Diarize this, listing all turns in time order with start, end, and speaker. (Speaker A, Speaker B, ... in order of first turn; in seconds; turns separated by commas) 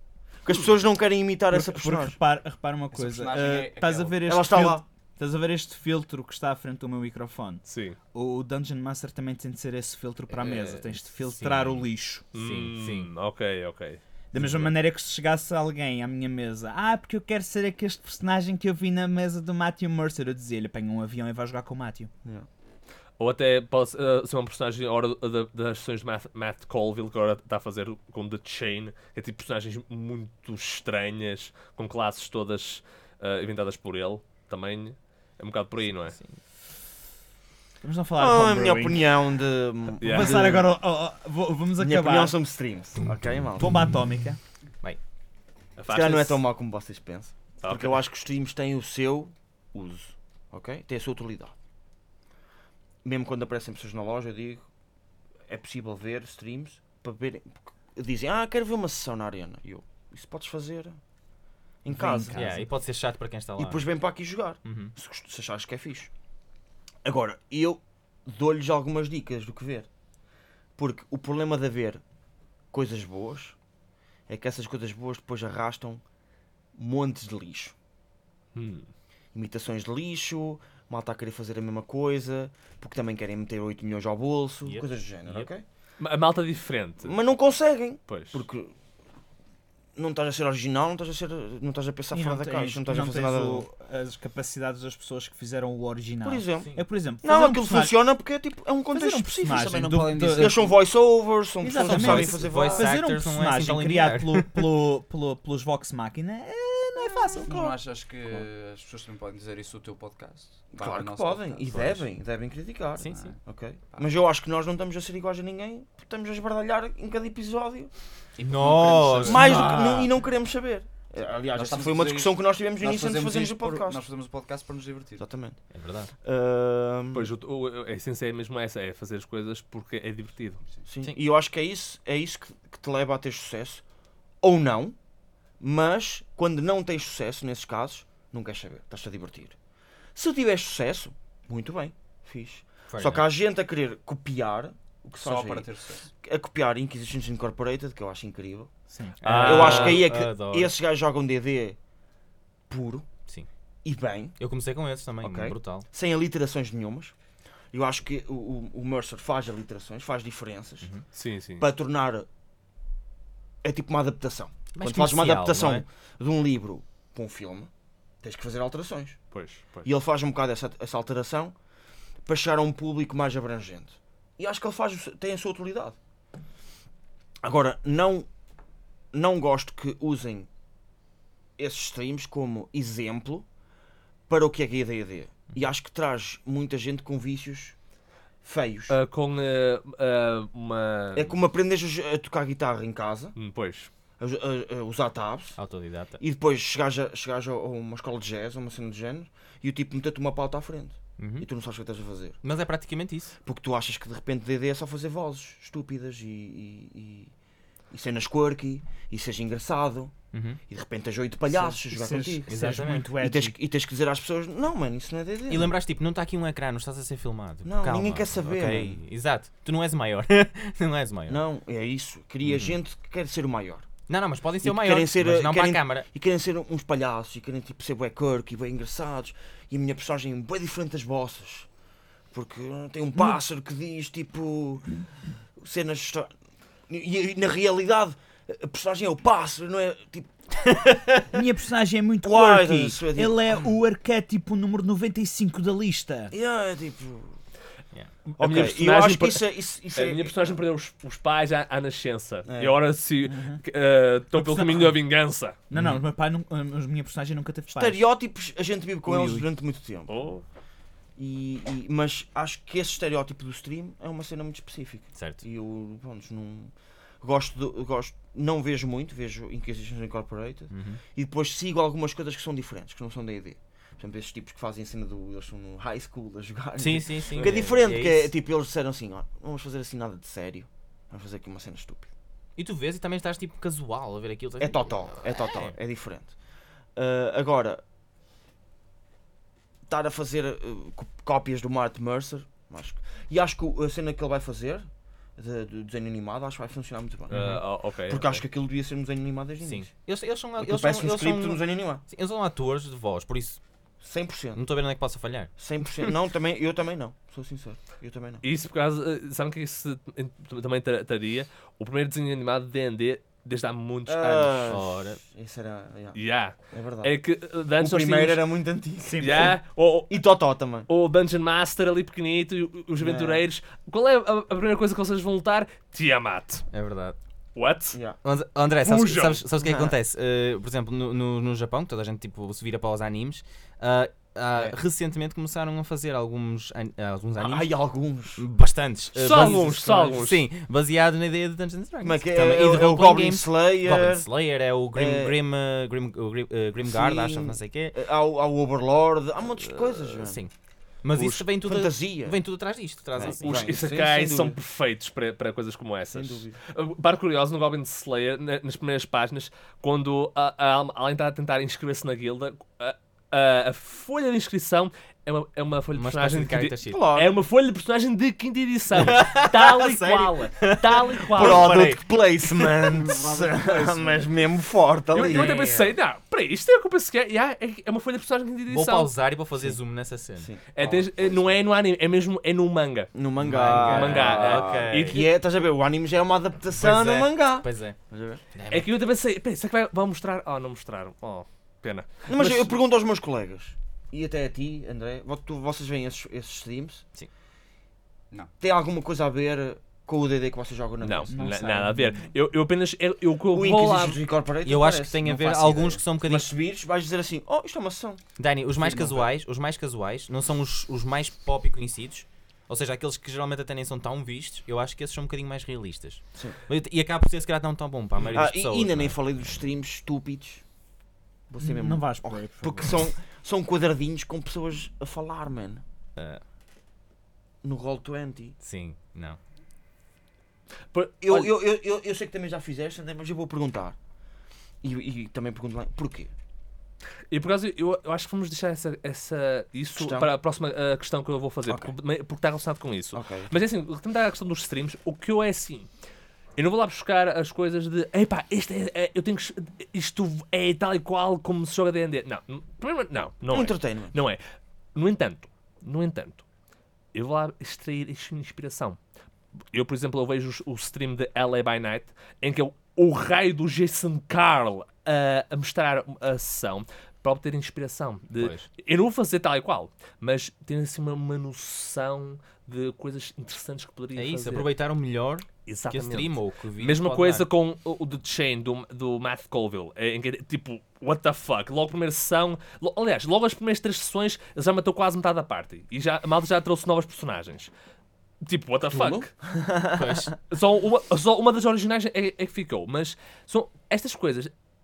Speaker A: 0.4-2.2, Speaker B: 1.5-12.3, Speaker C: 2.9-4.2, Speaker A: 4.3-4.8, Speaker D: 7.7-8.0, Speaker C: 10.3-10.8, Speaker E: 11.2-13.1, Speaker D: 12.3-14.0, Speaker B: 14.3-22.1, Speaker D: 23.2-36.2, Speaker B: 37.8-39.1, Speaker A: 38.2-40.8, Speaker B: 40.0-42.3, Speaker D: 40.0-40.5, Speaker A: 41.8-43.8, Speaker B: 43.6-44.4, Speaker D: 45.8-46.4, Speaker A: 45.9-51.5, Speaker D: 47.6-48.0, Speaker A: 53.0-54.7, Speaker A: 55.5-61.0, Speaker A: 61.8-62.5, Speaker B: 61.9-62.7, Speaker E: 62.3-63.9, Speaker A: 63.6-66.1, Speaker E: 64.7-64.9, Speaker A: 67.0-69.9, Speaker A: 70.8-72.0, Speaker A: 72.7-73.6, Speaker A: 74.3-76.0, Speaker A: 76.8-77.8, Speaker D: 78.5-78.9, Speaker A: 79.3-85.6, Speaker E: 84.7-85.5, Speaker D: 86.0-87.2, Speaker A: 87.0-88.7, Speaker D: 88.1-88.4, Speaker A: 90.0-93.7, Speaker B: 92.1-97.9, Speaker A: 96.2-96.7, Speaker A: 97.2-99.7, Speaker B: 98.9-100.6, Speaker C: 99.5-100.8, Speaker A: 100.3-102.9, Speaker B: 101.6-107.5, Speaker E: 101.7-104.6, Speaker C: 107.5-112.0, Speaker A: 107.5-108.5, Speaker A: 110.8-117.9, Speaker E: 113.0-113.3, Speaker C: 113.1-113.4, Speaker C: 118.4-120.1, Speaker E: 118.4-119.9, Speaker A: 119.2-124.0, Speaker B: 119.5-119.7, Speaker C: 121.5-125.3, Speaker A: 125.2-125.6, Speaker E: 125.7-126.1, Speaker A: 126.2-127.3, Speaker D: 127.1-130.6, Speaker A: 130.9-133.8, Speaker A: 134.4-135.0, Speaker A: 135.6-139.6, Speaker A: 140.2-148.7, Speaker E: 142.9-143.3, Speaker C: 145.2-146.1, Speaker E: 149.2-150.8, Speaker D: 149.2-150.0, Speaker A: 149.4-151.8, Speaker A: 152.7-153.1, Speaker A: 153.8-154.4, Speaker E: 154.4-155.9, Speaker A: 155.2-157.2, Speaker A: 157.7-160.9, Speaker D: 161.2-161.7, Speaker A: 161.6-162.3, Speaker A: 163.6-167.7, Speaker E: 164.8-165.9, Speaker A: 168.2-169.2, Speaker D: 169.3-169.9, Speaker A: 169.8-171.6, Speaker A: 172.3-176.0, Speaker A: 177.4-178.3, Speaker A: 179.1-180.5, Speaker A: 181.6-183.5, Speaker A: 184.3-187.8, Speaker A: 188.4-189.0, Speaker D: 188.9-191.3, Speaker A: 191.2-193.4, Speaker D: 193.4-193.9, Speaker A: 194.2-195.6, Speaker E: 195.6-196.2, Speaker A: 196.2-202.4, Speaker E: 201.2-201.5, Speaker E: 202.4-203.4, Speaker A: 203.4-207.3, Speaker A: 207.9-210.2, Speaker E: 210.3-210.6, Speaker A: 210.7-215.8, Speaker B: 211.6-213.5, Speaker E: 212.5-213.1, Speaker E: 215.5-221.4, Speaker A: 217.6-219.0, Speaker A: 221.3-223.9, Speaker E: 222.4-222.8, Speaker E: 224.1-226.1, Speaker A: 224.6-231.7, Speaker A: 232.3-234.9, Speaker A: 235.6-236.3, Speaker A: 236.9-240.7, Speaker E: 240.8-241.2, Speaker B: 241.3-246.3, Speaker A: 242.2-243.6, Speaker A: 246.3-247.4, Speaker D: 248.3-249.4, Speaker A: 248.4-250.5, Speaker D: 249.9-255.6, Speaker A: 252.5-252.8, Speaker B: 254.3-255.0, Speaker B: 255.7-258.0, Speaker E: 255.7-256.0, Speaker A: 257.7-260.1, Speaker B: 259.1-259.4, Speaker D: 260.1-260.4, Speaker A: 261.2-282.1, Speaker E: 265.2-265.4, Speaker E: 270.7-271.0, Speaker E: 276.8-278.3, Speaker E: 282.6-285.7, Speaker A: 284.6-286.4, Speaker A: 286.9-287.8, Speaker A: 289.9-299.9, Speaker D: 297.3-298.4, Speaker E: 297.3-297.6, Speaker E: 299.6-303.6, Speaker A: 300.6-302.0, Speaker A: 304.0-304.6, Speaker E: 304.6-305.5, Speaker A: 305.6-308.4, Speaker D: 308.4-314.8, Speaker A: 314.1-316.2, Speaker E: 314.7-315.2, Speaker D: 316.1-318.4, Speaker A: 316.7-317.1, Speaker A: 317.8-319.6, Speaker B: 319.1-319.6, Speaker D: 319.2-320.2, Speaker A: 320.1-320.9, Speaker D: 320.9-326.7, Speaker A: 323.0-323.4, Speaker E: 326.7-327.2, Speaker D: 327.6-328.0, Speaker A: 327.9-328.2, Speaker E: 328.2-337.7, Speaker D: 328.8-329.4, Speaker A: 329.6-329.9, Speaker A: 337.4-338.4, Speaker E: 338.4-348.0, Speaker D: 339.2-340.5, Speaker A: 342.0-344.3, Speaker A: 344.9-345.4, Speaker A: 346.8-350.4, Speaker E: 349.6-350.5, Speaker E: 351.0-353.7, Speaker A: 351.1-352.4, Speaker A: 353.1-354.6, Speaker D: 353.3-371.8, Speaker A: 356.1-356.6, Speaker E: 365.9-367.0, Speaker A: 366.9-367.3, Speaker E: 368.9-372.7, Speaker A: 371.3-375.9, Speaker C: 373.0-374.3, Speaker D: 375.1-379.1, Speaker E: 378.7-380.5, Speaker A: 380.4-381.6, Speaker D: 380.7-383.1, Speaker A: 383.1-388.4, Speaker E: 383.4-385.2, Speaker D: 383.7-385.3, Speaker E: 386.7-388.0, Speaker E: 388.6-388.9, Speaker D: 388.7-392.7, Speaker A: 392.3-397.1, Speaker A: 398.6-401.6, Speaker D: 401.0-404.2, Speaker B: 401.3-402.3, Speaker A: 403.5-405.3, Speaker E: 404.6-406.5, Speaker C: 405.2-406.0, Speaker A: 406.2-408.2, Speaker E: 408.4-419.6, Speaker C: 408.8-409.3, Speaker A: 418.3-420.6, Speaker A: 421.5-425.8, Speaker B: 421.6-423.0, Speaker E: 426.2-426.4, Speaker A: 427.6-428.6, Speaker E: 428.6-429.4, Speaker D: 430.9-431.5, Speaker A: 431.2-434.0, Speaker A: 434.8-436.3, Speaker D: 437.3-445.9, Speaker A: 440.0-440.3, Speaker A: 443.1-443.5, Speaker D: 446.6-454.4, Speaker A: 453.5-454.2, Speaker D: 454.9-456.4, Speaker D: 457.1-459.0, Speaker D: 459.7-474.7, Speaker E: 468.3-468.7, Speaker E: 474.1-477.5, Speaker D: 475.7-487.7, Speaker D: 488.5-489.3, Speaker A: 488.9-489.9, Speaker E: 489.9-490.3, Speaker D: 490.5-494.5